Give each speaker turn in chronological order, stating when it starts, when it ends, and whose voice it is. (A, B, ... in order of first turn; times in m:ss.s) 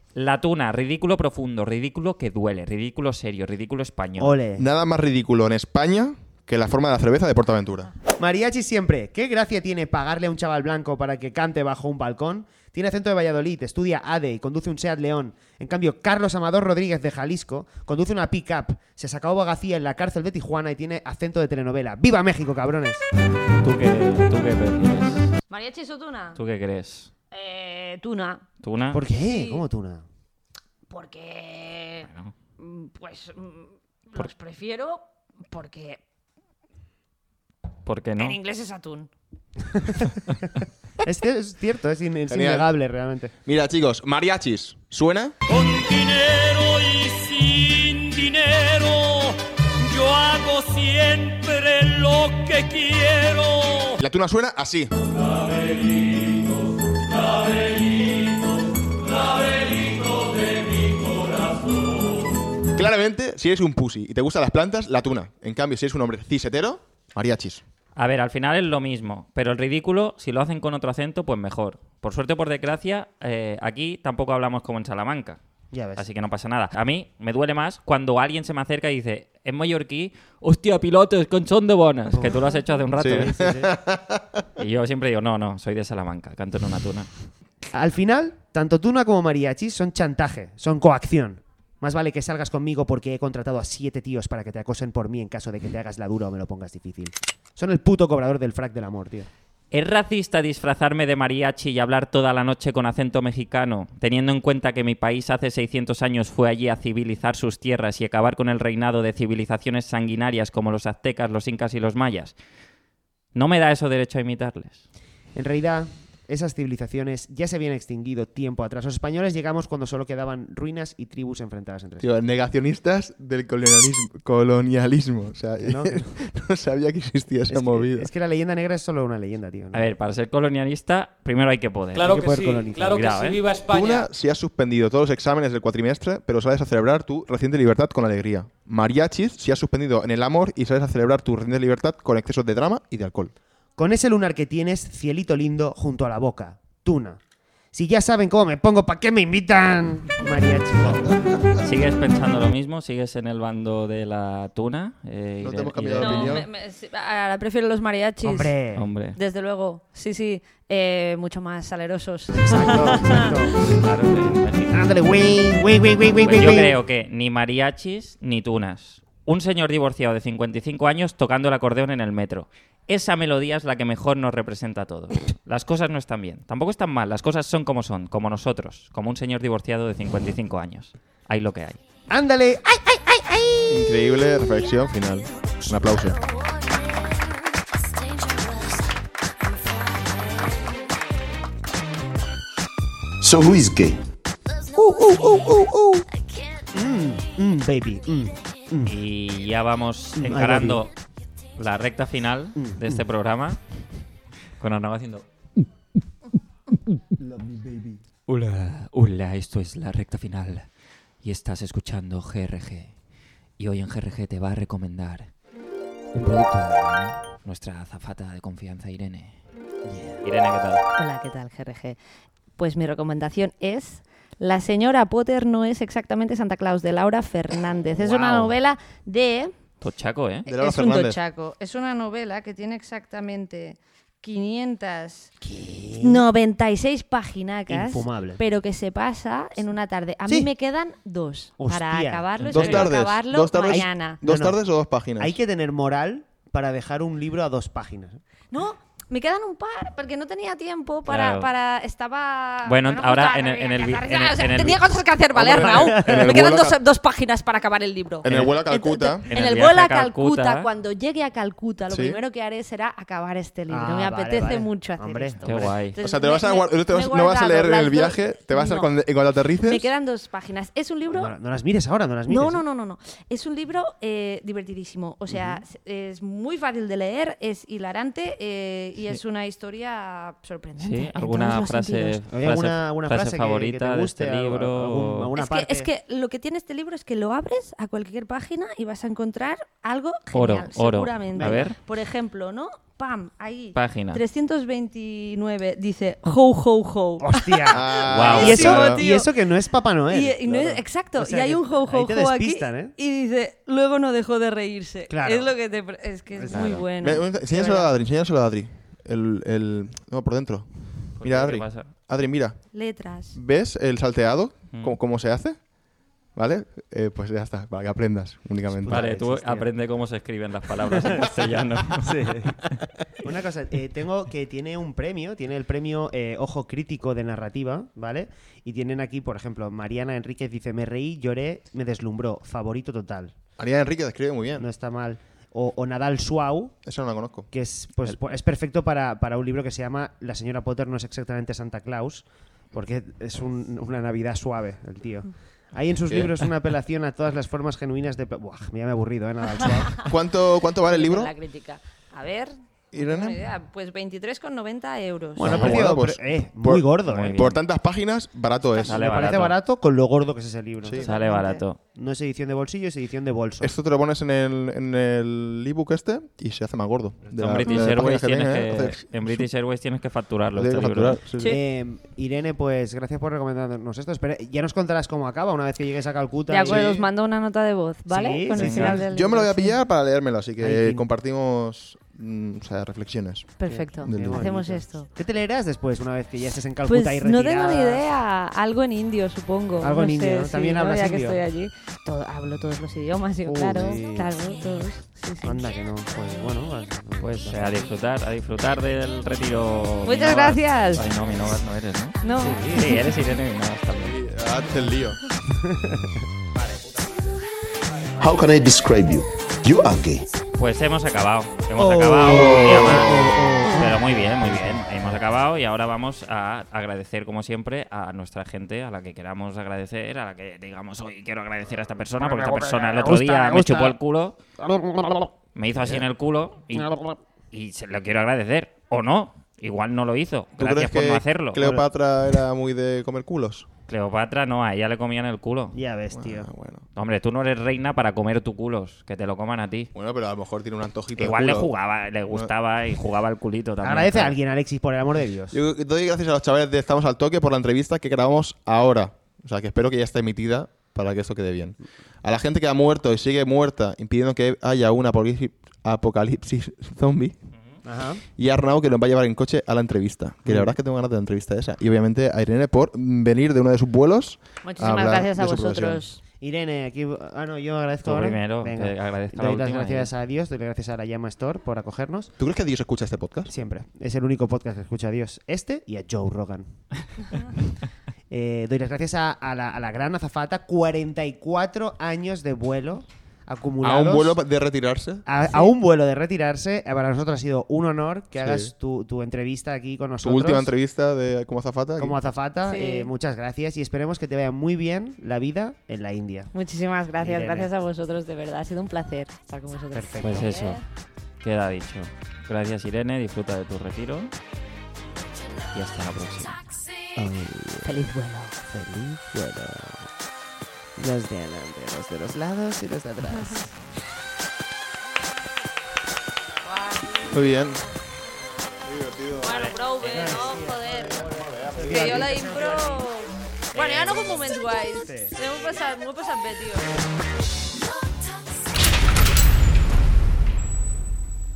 0:00.2-0:04.4 A
0:04.2-0:04.7 B
0:04.6-0:07.9 C
0:08.2-0:23.0 B
0:23.6-0:25.3 A
0:25.5-0:26.4 D
0:26.4-0:27.1 A
0:27.3-0:28.5 D
0:28.6-0:29.0 A
0:28.9-0:30.0 B
0:29.2-0:29.6 D
0:30.9-0:36.0 D
0:32.1-0:32.3 A
0:37.8-0:38.4 A
0:38.2-0:39.1 D
0:39.7-0:40.0 B
0:41.0-0:43.3 B
0:42.3-0:42.7 C
0:43.4-0:45.4 C
0:45.5-0:54.0 E
0:54.0-0:54.9 C
0:57.2-0:58.2 E
0:59.2-1:01.6 E
1:02.7-1:07.6 C
1:08.0-1:15.4 A
1:15.7-1:16.1 B
1:16.0-1:23.4 A
1:22.1-1:23.7 B
1:23.0-1:24.2 C
1:24.6-1:27.1 A
1:27.7-1:39.3 B
1:39.7-1:52.4 A
1:53.3-1:54.8 A
1:55.4-2:02.1 B
2:02.0-2:08.1 C
2:05.6-2:06.2 B
2:07.5-2:09.9 B
2:09.7-2:12.2 A
2:12.0-2:14.1 E
2:12.0-2:13.1 B
2:12.9-2:13.4 A
2:13.7-2:23.3 C
2:23.8-2:27.2 B
2:27.7-2:31.2 B
2:31.6-2:36.4 A
2:35.4-2:36.5 C
2:36.0-2:38.5 D
2:38.2-2:38.9 B
2:38.8-2:39.2 A
2:39.2-2:43.3 D
2:42.4-2:43.7 B
2:43.8-2:44.7 A
2:44.7-2:46.7 B
2:46.2-3:01.8 A
3:02.1-3:04.0 B
3:03.7-3:06.2 C
3:13.2-3:14.0 F
3:14.7-3:16.0 B
3:16.7-3:19.0 B
3:18.8-3:20.9 A
3:20.2-3:20.9 B
3:21.6-3:23.6 A
3:22.6-3:23.1 B
3:24.6-3:25.3 A
3:27.4-3:28.0 B
3:28.3-3:30.7 A
3:31.2-3:32.9 A
3:33.6-3:35.3 A
3:36.1-3:39.4 A
3:39.8-3:40.2 B
3:40.2-3:40.8 A
3:41.0-3:42.0 D
3:42.6-3:49.5 D
3:48.0-3:48.6 B
3:49.8-3:50.5 A
3:50.5-3:51.2 C
3:50.5-3:55.3 D
3:55.4-3:56.3 B
3:56.0-4:04.2 D
3:57.7-3:58.4 B
4:01.6-4:02.9 B
4:02.5-4:05.4 C
4:03.7-4:04.6 B
4:05.2-4:08.2 B
4:08.5-4:28.9 D
4:11.1-4:11.5 A
4:12.7-4:14.8 A
4:15.4-4:16.8 C
4:15.6-4:16.4 B
4:18.2-4:19.3 C
4:19.3-4:20.7 A
4:21.9-4:22.2 C
4:23.7-4:25.7 B
4:25.4-4:26.0 A
4:26.0-4:29.9 C
4:29.6-4:31.3 D
4:31.1-4:32.6 B
4:32.3-4:42.2 D
4:35.3-4:35.6 B
4:40.8-4:45.3 A
4:42.3-4:45.9 B
4:45.4-4:59.3 D
4:50.3-4:51.8 A
4:51.4-4:51.7 B
4:53.8-4:54.2 A
4:57.2-5:02.9 B
4:57.7-4:59.0 C
4:58.1-4:58.7 A
5:00.1-5:07.2 D
5:05.1-5:05.5 B
5:06.3-5:07.9 B
5:06.5-5:06.8 A
5:07.0-5:12.6 C
5:11.2-5:11.9 A
5:12.7-5:13.4 D
5:13.3-5:15.6 C
5:14.7-5:15.0 A
5:16.3-5:19.1 C
5:18.7-5:19.7 B
5:18.8-5:22.8 A
5:22.0-5:33.3 B
5:33.6-5:34.7 C
5:34.6-5:36.8 B
5:36.8-5:37.5 C
5:37.5-5:50.0 B
5:46.1-5:46.3 C
5:50.0-5:51.3 C
5:50.8-5:55.7 D
5:52.9-5:53.4 C
5:55.4-5:57.5 B
5:55.5-5:59.4 C
5:55.5-5:55.9 A
5:57.1-5:57.6 A
5:58.8-6:03.7 B
5:58.8-5:59.6 A
6:01.0-6:01.8 A
6:03.6-6:09.5 C
6:07.3-6:11.2 A
6:10.5-6:11.6 C
6:11.5-6:17.0 B
6:16.5-6:19.8 D
6:16.7-6:17.0 C
6:18.1-6:19.1 B
6:18.6-6:19.0 A
6:19.1-6:24.5 C
6:20.6-6:21.1 B
6:23.6-6:25.1 D
6:23.6-6:28.1 B
6:26.9-6:35.7 D
6:29.8-6:31.4 B
6:33.4-6:34.4 B
6:35.4-6:37.9 B
6:37.2-6:44.1 A
6:40.0-6:41.0 D
6:42.2-6:43.1 D
6:42.3-6:43.0 B
6:44.0-6:45.2 C
6:45.5-6:46.1 B
6:48.2-6:50.3 F
6:50.6-7:04.4 A
6:51.8-6:54.8 B
6:52.3-6:53.1 C
7:03.0-7:04.0 B
7:04.6-7:05.3 B
7:05.5-7:07.0 A
7:06.8-7:07.1 B
7:07.5-7:11.6 A
7:10.6-7:13.7 C
7:11.6-7:11.9 B
7:13.9-7:15.8 A
7:15.7-7:16.5 B
7:16.1-7:16.8 C
7:17.0-7:19.9 A
7:19.9-7:21.7 C
7:21.2-7:24.4 A
7:23.8-7:25.6 B
7:25.5-7:37.4 C
7:37.8-7:38.2 B
7:38.4-7:46.0 C
7:40.4-7:40.8 B
7:44.6-7:46.2 D
7:46.4-7:52.4 B
7:48.0-7:50.1 A
7:52.4-7:53.5 C
7:53.5-7:56.8 B
7:58.3-8:04.4 B
8:03.8-8:05.2 C
8:05.3-8:10.7 B
8:08.4-8:08.7 C
8:10.2-8:12.2 C
8:12.0-8:16.5 B
8:12.7-8:13.1 D
8:16.5-8:20.8 D
8:17.2-8:17.7 B
8:19.9-8:20.6 B
8:20.2-8:20.8 A
8:21.4-8:24.3 A
8:25.7-8:26.6 A
8:27.2-8:28.1 B
8:27.8-8:28.6 D
8:28.6-8:30.1 B
8:31.0-8:33.7 B
8:36.6-8:37.8 D
8:37.3-8:37.8 C
8:38.8-8:39.6 C
8:39.4-8:47.0 D
8:40.0-8:40.3 A
8:40.0-8:43.1 B
8:41.5-8:41.9 C
8:43.7-8:44.0 A
8:45.0-8:45.4 B